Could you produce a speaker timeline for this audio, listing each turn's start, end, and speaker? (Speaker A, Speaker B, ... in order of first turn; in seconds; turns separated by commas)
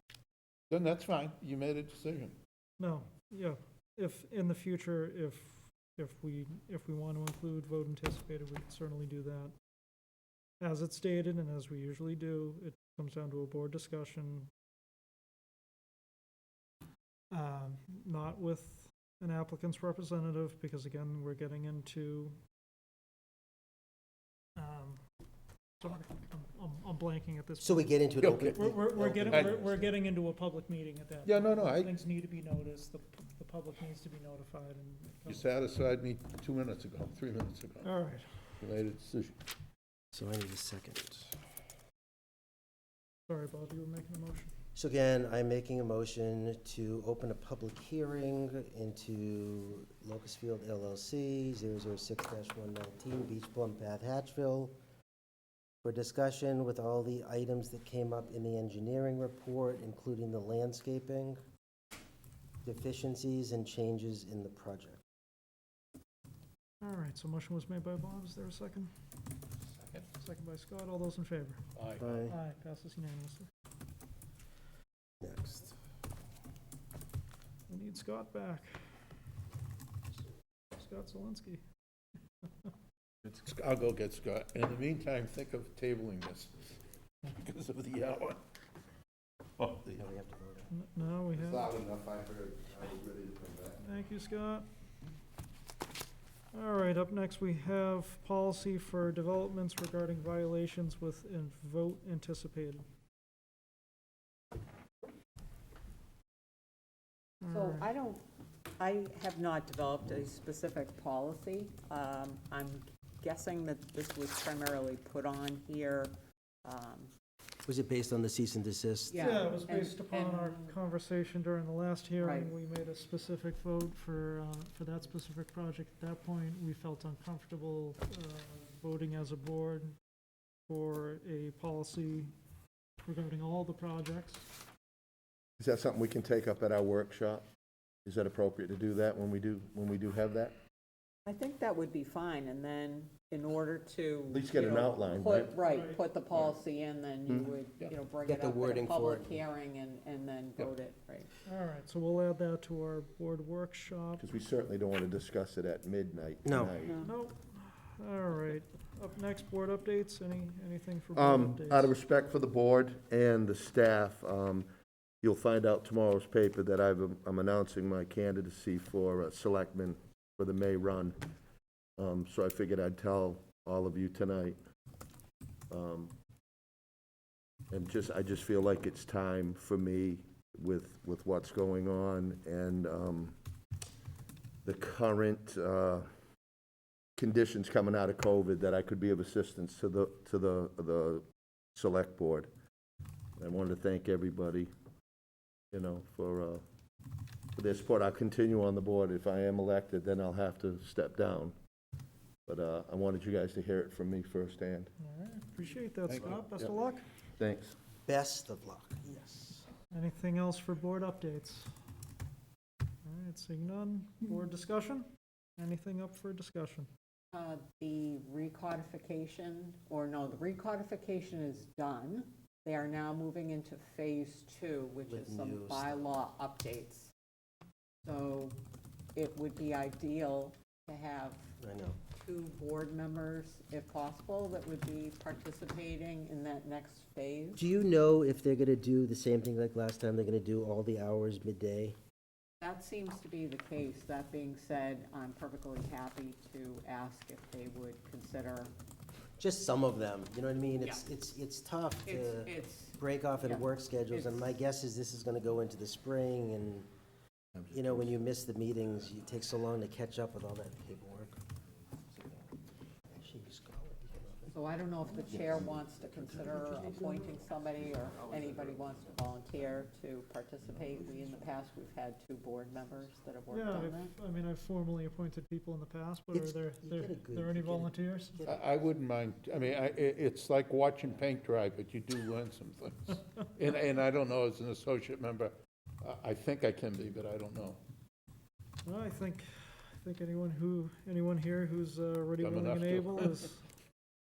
Speaker A: 0.7-2.3, Speaker B: 2.8-9.5, Speaker B: 10.6-14.5, Speaker B: 17.3-22.4, Speaker B: 24.6-25.0, Speaker B: 25.8-27.9, Speaker C: 27.6-29.9, Speaker A: 28.2-28.5, Speaker B: 28.5-35.5, Speaker A: 31.2-31.9, Speaker A: 35.3-37.9, Speaker B: 37.8-38.4, Speaker A: 38.6-39.4, Speaker C: 40.1-41.4, Speaker B: 43.3-44.5, Speaker C: 44.7-54.7, Speaker C: 55.8-61.4, Speaker C: 62.6-65.0, Speaker B: 66.8-68.9, Speaker B: 70.2-71.6, Speaker A: 71.7-72.2, Speaker C: 72.0-72.4, Speaker B: 72.3-73.5, Speaker C: 75.2-75.8, Speaker B: 77.7-78.8, Speaker B: 80.7-81.6, Speaker A: 83.2-86.6, Speaker A: 87.2-88.4, Speaker A: 89.6-90.0, Speaker C: 90.0-90.7, Speaker B: 90.7-91.7, Speaker D: 91.3-93.8, Speaker B: 93.8-94.7, Speaker B: 96.5-102.8, Speaker B: 107.4-107.8, Speaker E: 107.5-108.2, Speaker E: 108.8-116.1, Speaker E: 116.6-117.1, Speaker C: 117.7-119.4, Speaker E: 119.1-120.7, Speaker B: 119.2-129.9, Speaker E: 122.2-122.5, Speaker B: 130.7-132.3, Speaker B: 133.0-134.5, Speaker D: 135.6-137.4, Speaker D: 138.0-140.5, Speaker E: 141.2-151.3, Speaker D: 144.3-145.5, Speaker B: 145.6-146.0, Speaker D: 147.3-147.6, Speaker C: 148.2-149.4, Speaker B: 151.4-154.2, Speaker D: 154.2-157.0, Speaker C: 156.4-156.7, Speaker E: 156.8-157.1, Speaker B: 157.0-161.9, Speaker D: 161.1-164.7, Speaker D: 165.2-171.2, Speaker D: 172.0-174.6, Speaker D: 175.7-176.1, Speaker D: 177.7-183.3, Speaker D: 184.6-186.1, Speaker D: 187.2-192.5, Speaker D: 193.4-194.7, Speaker D: 195.7-196.6, Speaker D: 197.6-201.5, Speaker D: 202.5-204.9, Speaker B: 205.0-207.0, Speaker A: 206.1-206.7, Speaker D: 207.4-207.8, Speaker C: 208.1-209.7, Speaker B: 209.9-211.7, Speaker B: 213.0-216.9, Speaker E: 217.3-227.1, Speaker C: 225.1-226.0, Speaker E: 228.0-228.6, Speaker E: 229.1-231.5, Speaker C: 231.6-232.0, Speaker E: 232.2-237.6, Speaker C: 237.6-242.0, Speaker E: 242.6-248.7, Speaker C: 249.4-256.9, Speaker E: 252.0-254.5, Speaker C: 257.7-261.4, Speaker C: 263.1-264.6, Speaker E: 264.5-274.1, Speaker C: 266.7-267.3, Speaker B: 273.5-278.4, Speaker C: 276.3-278.7, Speaker A: 278.4-287.8, Speaker B: 288.8-293.6, Speaker A: 292.4-293.4